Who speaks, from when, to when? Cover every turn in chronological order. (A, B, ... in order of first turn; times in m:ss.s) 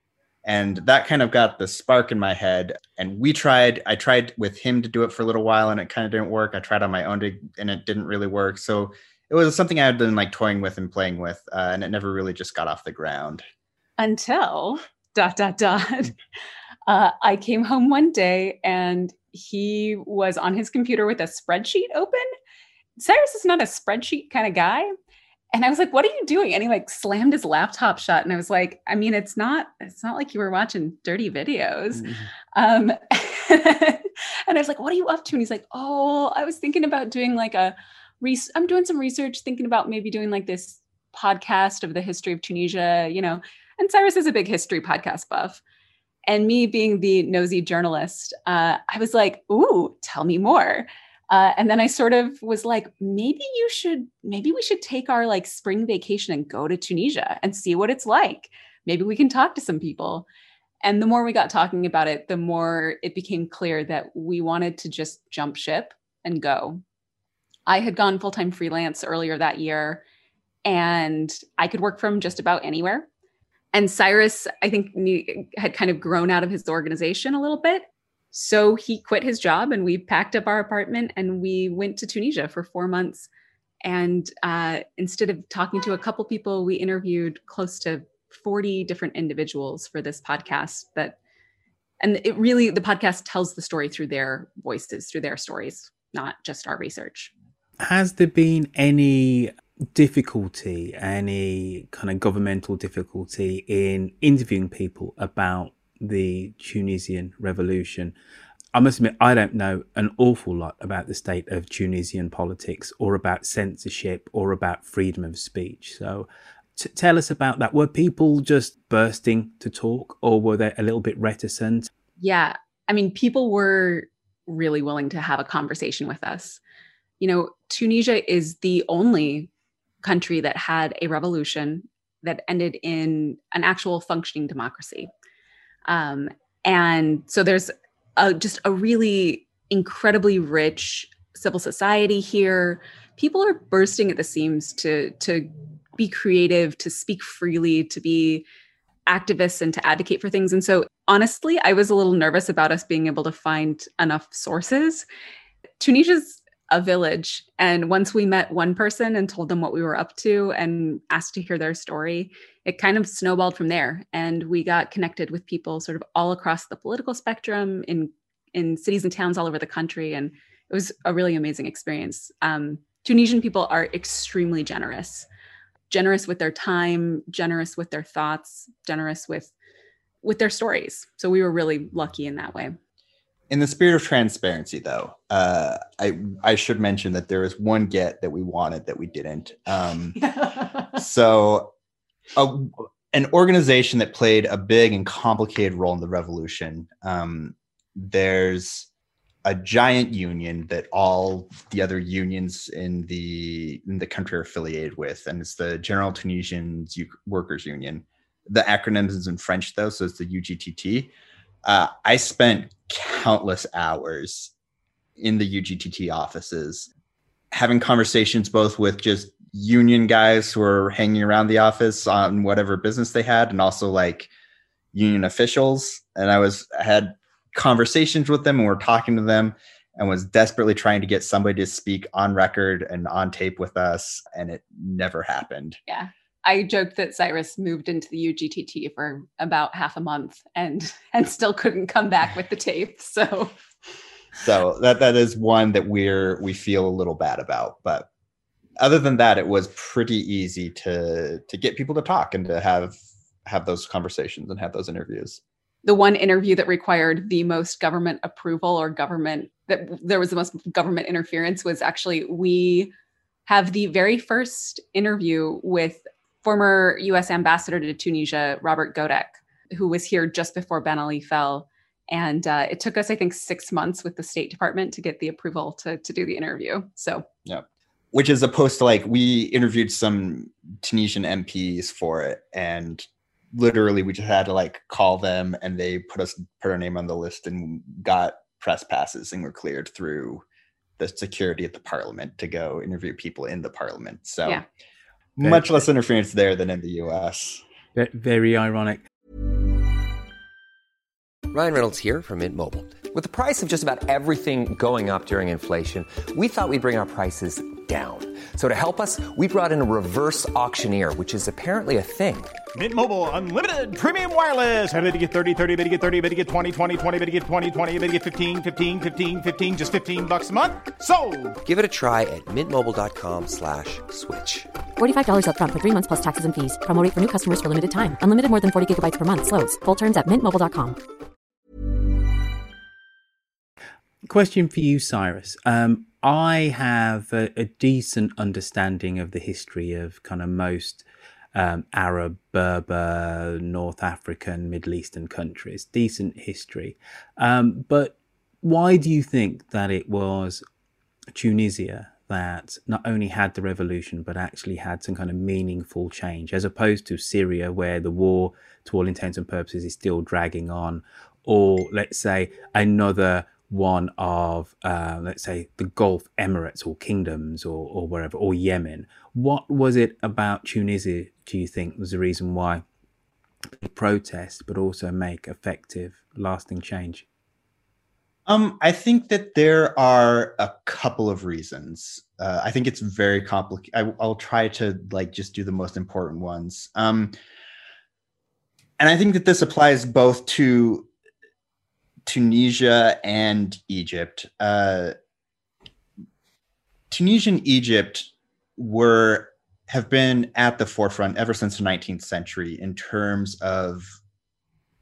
0:00.4-0:13.4 A
0:14.0-0:16.2 B
0:16.9-0:22.2 B
0:23.0-0:24.9 B
0:25.5-0:45.6 B
0:46.3-1:00.3 B
1:00.8-1:06.8 B
1:07.7-1:10.0 B
1:10.6-1:13.1 B
1:13.7-1:23.3 B
1:23.8-1:31.2 B
1:32.0-1:37.3 B
1:37.8-1:48.1 C
1:48.7-2:01.9 C
2:02.2-2:06.6 B
2:07.2-2:09.5 B
2:10.0-2:15.1 B
2:15.9-2:28.4 B
2:29.1-2:35.1 B
2:35.8-2:55.3 B
2:55.9-2:59.5 B
3:00.2-3:02.8 B
3:03.5-3:10.2 A
3:10.2-3:11.0 B
3:11.0-3:11.7 A
3:12.4-3:18.9 A
3:19.4-3:31.1 A
3:31.6-3:34.5 A
3:35.2-3:36.9 A
3:37.5-3:44.3 A
3:44.9-3:55.8 A
3:55.9-4:03.5 B
4:04.4-4:08.1 A
4:08.8-4:15.4 A
4:15.8-4:22.9 B
4:23.5-4:37.2 B
4:37.4-4:50.4 A
4:51.0-4:54.6 A
4:55.4-4:57.6 A
4:55.4-4:55.8 C
4:58.0-4:59.0 C
5:01.5-5:12.6 D
5:12.8-5:21.6 E
5:21.6-5:24.7 D
5:25.0-5:31.0 F
5:34.3-5:50.6 C
5:51.3-6:12.8 C
6:13.8-6:17.3 C
6:18.5-6:27.4 A
6:29.0-6:31.1 A
6:32.3-6:35.1 A
6:37.1-6:44.2 A